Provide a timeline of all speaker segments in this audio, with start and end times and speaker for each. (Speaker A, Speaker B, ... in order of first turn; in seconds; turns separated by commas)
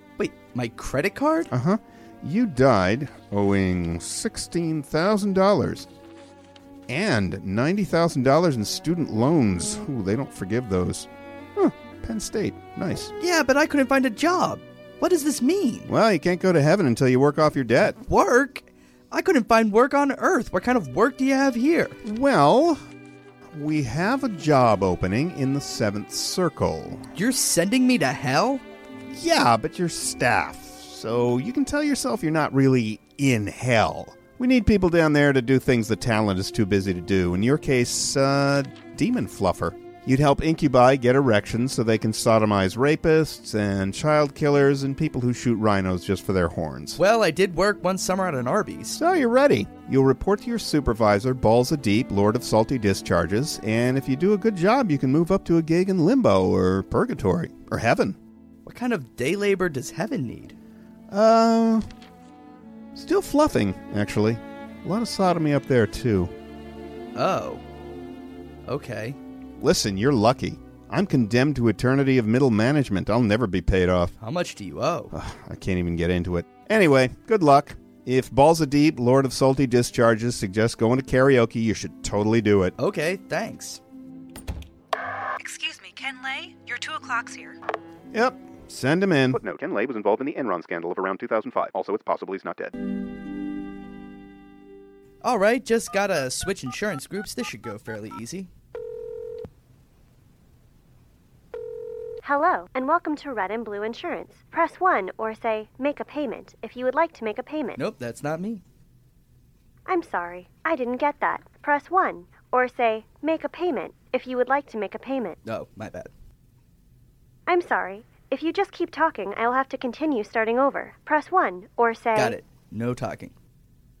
Speaker A: 0.2-1.5, Speaker B: 1.5-5.9, Speaker B: 6.9-13.1, Speaker A: 13.2-15.9, Speaker B: 15.9-18.0, Speaker A: 18.1-21.9, Speaker B: 22.0-22.8, Speaker B: 23.5-27.1, Speaker A: 27.1-28.6, Speaker B: 29.1-47.0, Speaker A: 47.0-49.0, Speaker B: 49.0-58.2, Speaker A: 58.6-60.5, Speaker B: 61.1-61.9, Speaker B: 62.9-66.3, Speaker A: 67.1-67.6, Speaker A: 68.7-69.2, Speaker B: 69.6-74.1, Speaker A: 74.2-75.1, Speaker B: 75.1-82.8, Speaker A: 82.8-83.8, Speaker C: 85.4-87.5, Speaker B: 88.1-92.7, Speaker A: 95.2-98.5, Speaker D: 102.2-107.8, Speaker A: 107.8-108.6, Speaker D: 109.9-115.4, Speaker A: 115.4-116.1, Speaker D: 117.5-122.4, Speaker A: 122.2-123.3